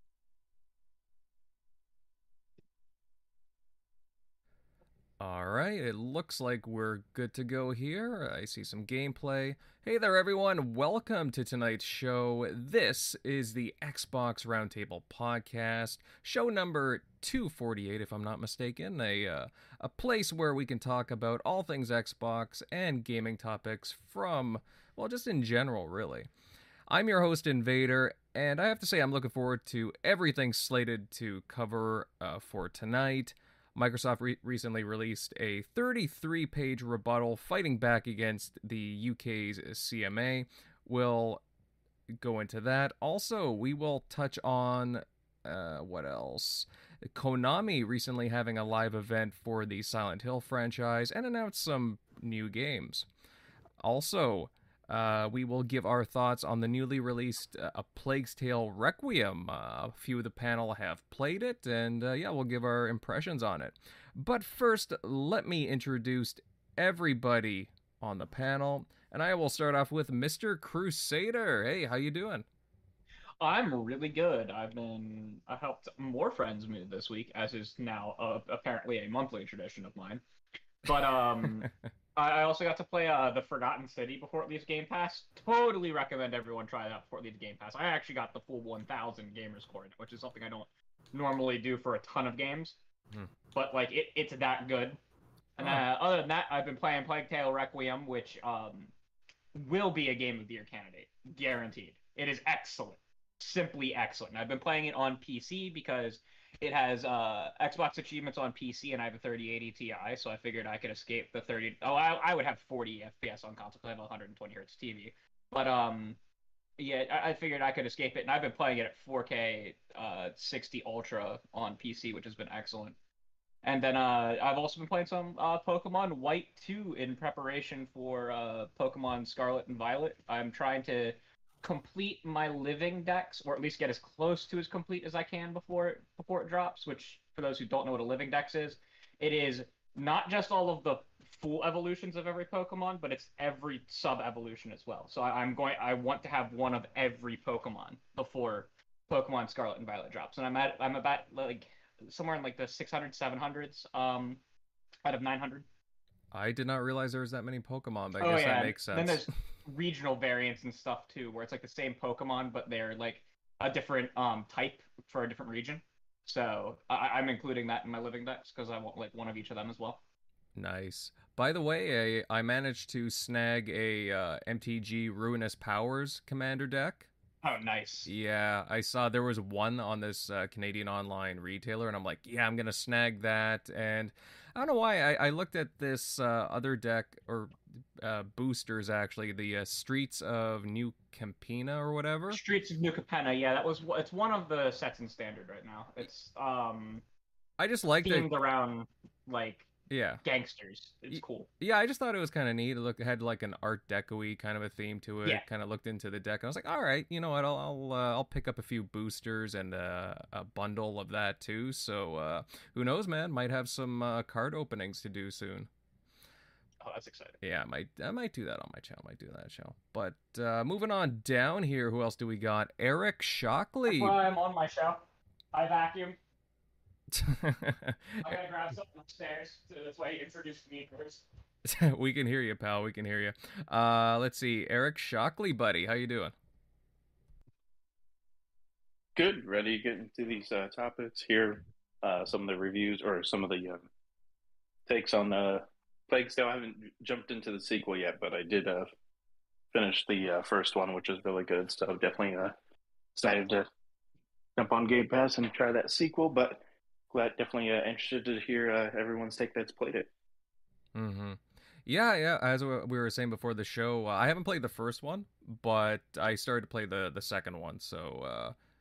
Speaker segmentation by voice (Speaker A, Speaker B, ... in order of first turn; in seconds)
Speaker A: 5.2-26.3, 26.9-41.4, 42.2-53.0, 53.8-72.4, 156.3-159.3, 170.6-177.1, 178.1-192.4, 197.6-198.3, 199.9-200.2, 201.1-215.7, 217.4-224.2, 227.1-228.2, 231.6-236.3, 260.9-268.5
Speaker B: 73.4-80.2, 80.8-92.8, 93.5-95.0, 95.6-98.9, 99.5-116.2, 116.8-123.0, 123.6-154.4, 155.0-155.7, 158.2-170.0, 177.4-178.1, 192.3-197.0, 198.0-199.7, 200.2-201.5, 216.8-217.4, 223.9-226.2, 228.2-231.2
Speaker C: 239.2-243.9, 244.9-248.9, 249.7-252.6, 253.2-253.7, 254.6-260.1